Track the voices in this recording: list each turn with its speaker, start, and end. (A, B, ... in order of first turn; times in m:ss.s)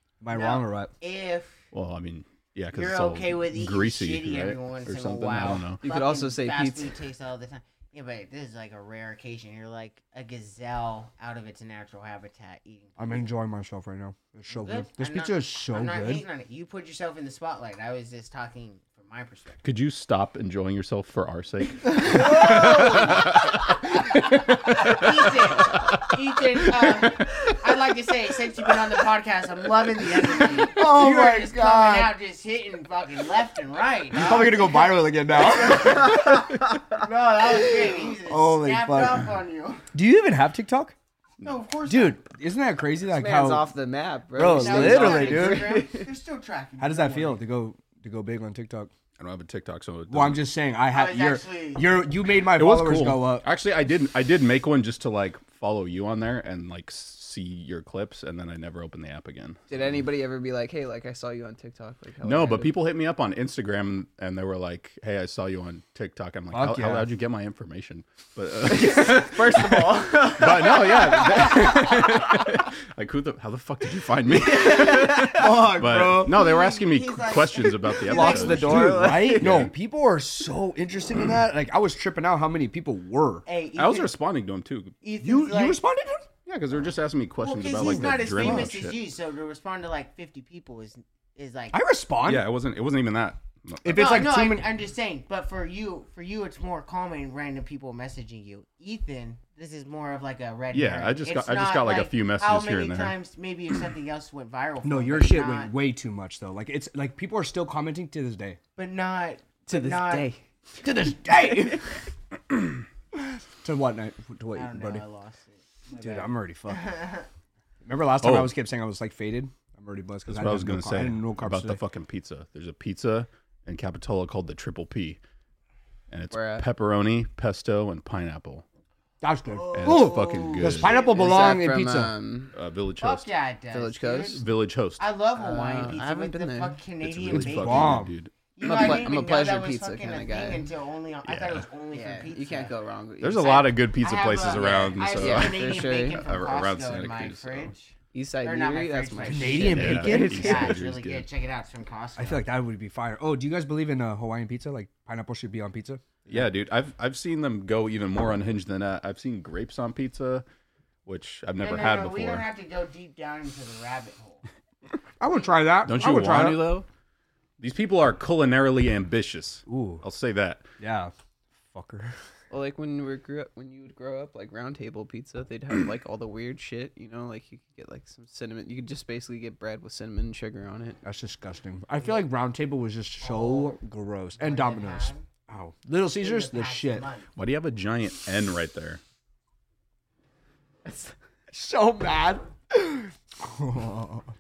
0:00.2-0:00.9 A
0:00.3-0:01.6 B
0:01.7-0:05.8 C
0:02.7-0:13.3 B
0:05.8-0:06.9 D
0:13.0-0:16.2 A
0:14.6-0:19.6 B
0:19.6-0:25.4 C
0:22.0-0:23.4 B
0:22.2-0:22.8 A
0:24.0-0:39.8 B
0:30.5-0:32.2 A
0:34.1-0:36.6 A
0:37.6-0:39.2 A
0:39.9-0:40.9 A
0:41.4-0:42.2 B
0:41.9-0:43.7 A
0:43.1-0:46.1 D
0:44.4-0:45.8 A
0:44.4-0:47.4 B
0:46.8-0:48.9 A
0:49.2-0:50.4 C
0:50.1-0:53.4 A
0:50.9-0:52.0 B
0:52.5-0:59.6 C
0:59.7-1:02.7 D
1:02.2-1:19.7 C
1:06.5-1:07.1 A
1:08.7-1:12.2 D
1:14.3-1:15.7 D
1:14.7-1:16.5 A
1:16.1-1:19.0 B
1:18.1-1:23.4 A
1:18.1-1:19.7 D
1:23.5-1:24.1 B
1:23.8-1:25.0 C
1:25.0-1:25.8 B
1:25.2-1:26.3 A
1:26.5-1:29.0 C
1:27.4-1:31.8 B
1:27.8-1:28.7 A
1:31.7-1:32.5 A
1:32.3-1:34.3 C
1:33.8-1:34.7 A
1:33.9-1:45.7 B
1:40.7-1:43.2 C
1:44.8-1:48.6 A
1:48.8-1:50.3 B
1:49.7-1:50.4 D
1:50.8-1:51.9 A
1:51.3-1:51.8 D
1:53.2-1:55.0 A
1:54.5-1:57.3 B
1:56.0-1:56.9 A
1:57.8-2:01.8 A
1:58.2-1:58.5 C
2:00.3-2:05.2 C
2:06.1-2:08.6 C
2:06.3-2:06.6 D
2:09.2-2:12.1 A
2:09.5-2:11.6 B
2:09.7-2:11.0 C
2:11.1-2:12.5 D
2:12.5-2:13.3 C
2:13.0-2:14.4 B
2:13.7-2:14.4 D
2:14.3-2:15.0 C
2:15.0-2:22.7 B
2:15.4-2:16.8 D
2:17.0-2:18.3 C
2:17.3-2:18.2 A
2:18.6-2:20.7 D
2:21.3-2:21.7 C
2:21.9-2:23.7 D
2:23.2-2:27.7 C
2:23.8-2:32.5 B
2:24.5-2:26.2 D
2:28.1-2:30.1 D
2:29.2-2:30.8 A
2:29.6-2:31.3 C
2:32.2-2:36.4 A
2:36.3-2:40.4 C
2:41.1-2:42.4 C
2:41.6-2:44.4 B
2:45.2-2:46.7 A
2:45.8-2:46.9 C
2:46.0-2:46.6 B
2:47.6-2:50.7 C
2:49.7-2:50.0 A
2:50.8-2:51.1 A
2:51.7-2:52.2 A
2:52.5-3:01.0 D
3:01.0-3:07.1 A
3:02.0-3:02.2 B
3:03.2-3:03.7 B
3:04.4-3:05.2 B
3:06.2-3:07.3 B
3:07.4-3:09.0 C
3:10.8-3:11.1 D
3:11.5-3:14.3 A